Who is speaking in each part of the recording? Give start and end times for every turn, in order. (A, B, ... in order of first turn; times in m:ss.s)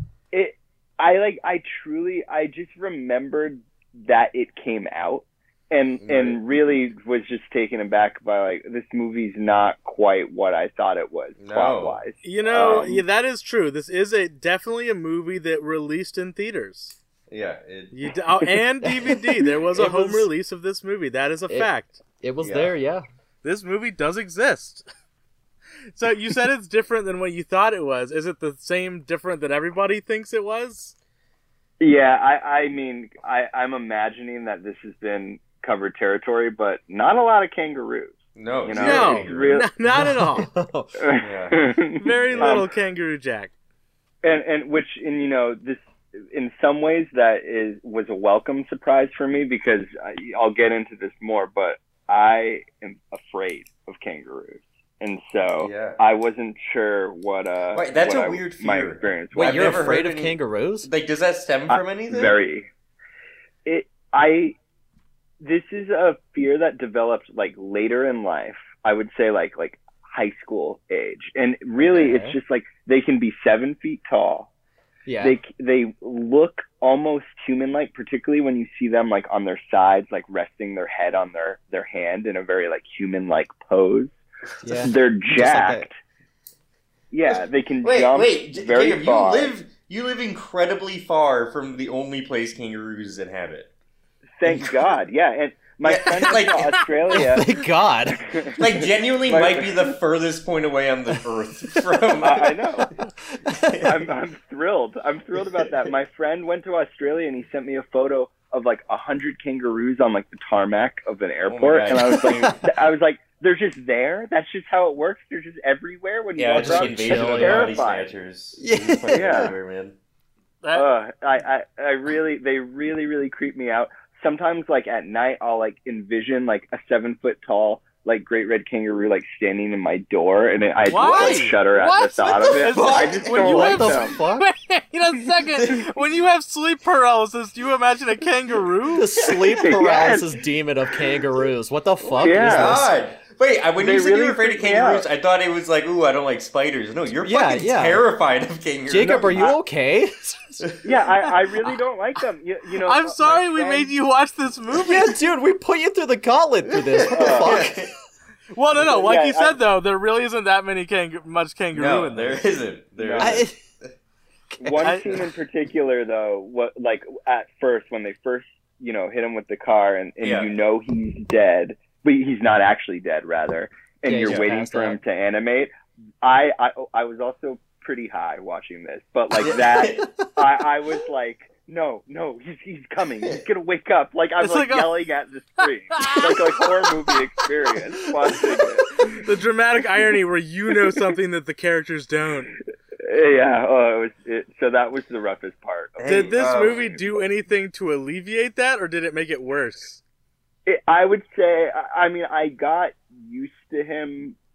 0:00.3-0:13.0 A
0:06.0-0:06.4 B
0:11.4-0:12.0 B
0:12.2-0:17.0 C
0:17.3-0:17.9 B
0:17.9-0:22.0 C
0:18.8-0:20.3 D
0:21.5-0:23.0 D
0:22.4-0:22.7 B
0:23.4-0:24.8 C
0:25.9-0:30.9 C
0:31.8-0:39.7 A
0:38.4-0:39.6 B
0:38.8-0:40.5 C
0:39.9-0:40.9 D
0:41.0-0:42.6 A
0:41.2-0:41.7 B
0:41.9-0:43.5 C
0:42.3-0:42.6 B
0:44.2-1:00.0 A
0:55.6-0:56.0 B
0:57.7-1:02.4 B
0:59.3-1:00.9 D
1:01.7-1:02.7 A
1:03.6-1:04.6 A
1:05.4-1:14.5 A
1:11.8-1:12.4 D
1:15.0-1:15.4 D
1:15.2-1:24.2 A
1:24.6-1:25.8 D
1:24.8-1:25.9 A
1:27.1-1:29.5 A
1:27.3-1:33.7 B
1:34.4-1:39.9 A
1:35.8-1:36.8 B
1:37.1-1:38.3 D
1:38.6-1:42.6 B
1:42.2-1:42.9 A
1:43.4-1:43.8 D
1:43.6-1:43.9 B
1:43.8-1:58.1 A
1:51.4-1:52.7 B
1:52.2-1:52.6 D
1:56.4-1:59.9 B
1:56.5-1:57.8 D
1:58.6-1:59.5 D
1:59.1-1:59.5 A
2:00.6-2:00.9 C
2:00.7-2:14.2 A
2:10.9-2:11.6 C
2:11.0-2:14.5 D
2:12.3-2:19.1 C
2:12.7-2:13.5 B
2:18.9-2:22.9 D
2:19.2-2:20.3 A
2:19.3-2:19.6 B
2:22.1-2:29.5 B
2:22.2-2:22.8 A
2:23.8-2:25.0 A
2:27.1-2:28.0 D
2:28.9-2:30.7 D
2:29.0-2:29.6 A
2:30.8-2:33.9 A
2:32.8-2:35.2 C
2:34.8-2:37.9 D
2:36.7-2:37.9 B
2:37.1-2:37.6 A
2:38.5-2:42.5 C
2:38.8-2:39.6 A
2:41.7-2:43.9 B
2:43.0-2:43.4 A
2:43.2-2:43.6 D
2:44.6-3:09.0 A
2:44.8-2:45.2 C
2:50.2-2:50.5 B
2:54.0-2:55.0 D
2:59.4-3:00.1 B
3:04.4-3:05.0 C
3:05.9-3:06.7 C
3:09.0-3:12.5 C
3:13.0-3:17.1 A
3:16.0-3:16.8 B
3:16.1-3:20.0 C
3:20.6-3:24.4 A